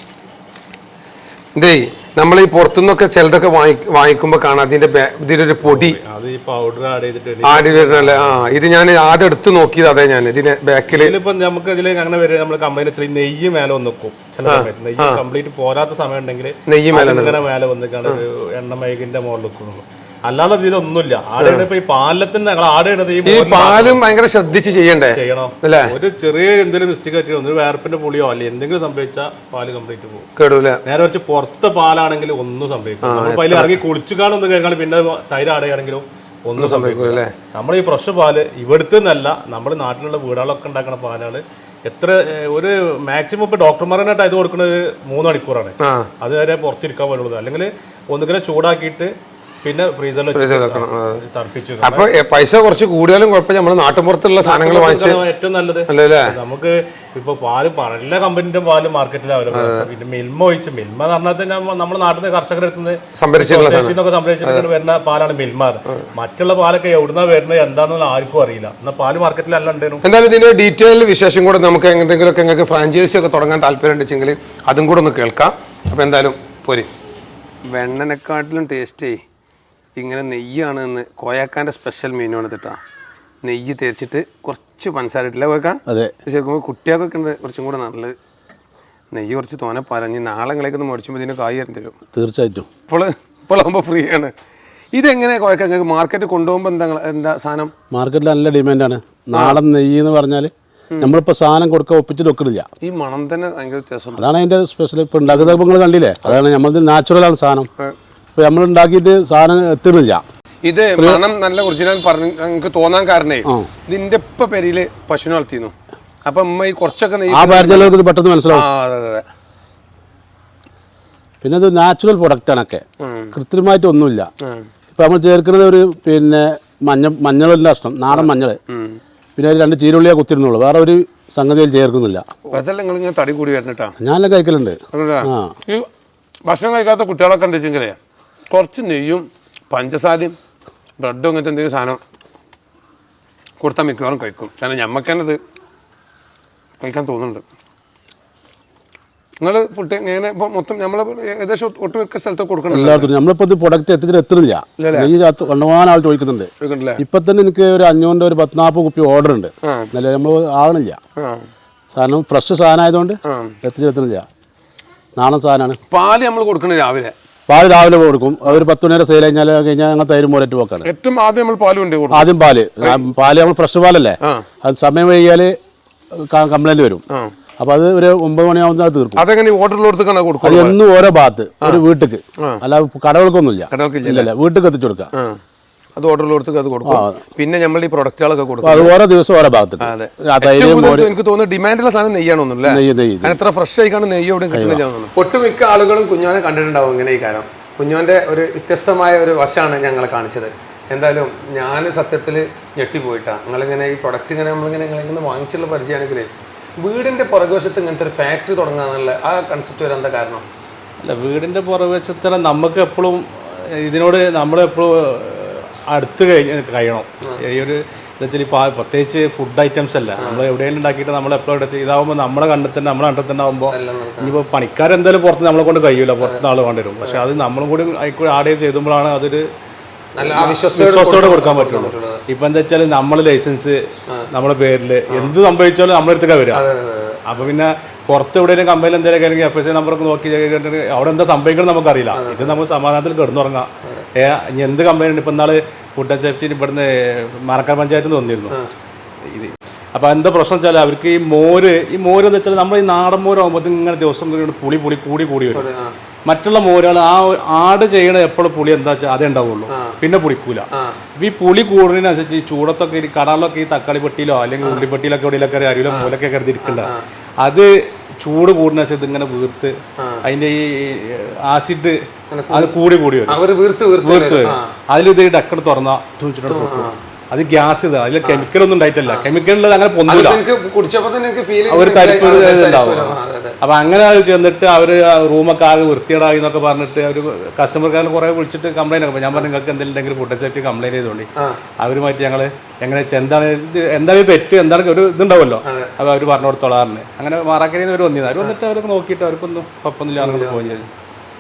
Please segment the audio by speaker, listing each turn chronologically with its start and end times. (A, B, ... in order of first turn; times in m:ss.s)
0:01.6-0:06.0 A
0:05.6-0:08.6 B
0:07.4-0:11.1 A
0:10.9-0:24.0 B
0:14.5-0:15.2 A
0:16.7-0:17.4 A
0:21.4-0:21.7 A
0:23.2-0:25.9 A
0:25.1-0:30.3 B
0:30.4-0:30.8 A
0:30.8-0:49.1 B
0:33.0-0:33.8 A
0:36.6-0:37.3 A
0:45.8-0:46.1 A
0:49.6-0:52.1 B
0:50.3-0:51.2 A
0:51.8-0:55.2 A
0:54.4-1:10.0 B
0:55.9-0:56.3 A
0:59.5-0:59.9 A
1:03.2-1:04.6 A
1:10.0-1:16.9 A
1:17.7-1:19.2 A
1:20.0-1:22.8 A
1:23.4-1:28.2 A
1:25.9-1:26.1 C
1:29.1-1:32.0 A
1:32.1-1:32.7 C
1:32.9-1:34.3 A
1:34.9-1:37.7 A
1:37.9-1:42.7 C
1:39.3-1:39.6 A
1:42.8-1:44.3 A
1:44.2-1:47.7 C
1:48.4-1:50.2 C
1:50.7-1:55.7 A
1:51.0-1:51.2 C
1:53.4-1:53.7 C
1:56.2-1:58.0 A
1:57.3-1:58.7 C
1:58.5-1:59.2 A
2:01.4-2:04.3 C
2:03.0-2:03.3 A
2:05.0-2:08.6 C
2:08.1-2:09.0 A
2:09.4-2:12.2 C
2:12.5-2:14.0 A
2:14.0-2:15.5 C
2:14.9-2:15.9 A
2:16.5-2:18.0 A
2:18.5-2:20.4 A
2:21.0-2:22.0 A
2:23.6-2:25.4 A
2:26.8-2:27.4 A
2:29.4-2:33.1 A
2:32.7-2:41.0 C
2:34.8-2:35.1 A
2:36.6-2:37.0 A
2:39.6-2:39.9 A
2:41.2-2:41.4 A
2:41.9-2:44.2 C
2:43.2-2:43.6 A
2:45.2-2:45.8 C
2:45.9-2:47.1 A
2:47.5-2:50.9 C
2:50.8-2:52.3 A
2:52.1-2:55.6 C
2:56.1-2:57.0 C
2:57.6-2:59.2 C
2:59.2-3:00.8 A
3:00.4-3:05.1 C
3:03.7-3:04.3 A
3:05.1-3:05.4 A
3:06.0-3:08.9 A
3:06.8-3:07.2 C
3:08.6-3:11.1 C
3:09.8-3:30.4 A
3:12.6-3:13.4 C
3:14.5-3:14.8 C
3:31.0-3:49.4 B
3:40.2-3:40.4 A
3:43.7-3:44.3 A
3:50.2-3:52.2 A
3:50.2-3:56.6 B
3:56.5-3:57.2 A
3:57.2-4:08.6 B
4:02.1-4:02.6 A
4:09.3-4:15.7 B
4:15.5-4:16.0 A
4:16.3-4:33.4 B
4:19.7-4:20.0 A
4:20.7-4:21.0 A
4:26.6-4:27.0 A
4:30.0-4:30.2 A
4:32.3-4:32.7 A
4:33.3-4:34.7 A
4:34.0-4:40.4 B
4:36.5-4:37.0 A
4:40.1-4:43.6 A
4:41.7-4:51.3 B
4:51.8-5:00.9 B
4:55.7-4:55.9 A
5:00.2-5:00.6 A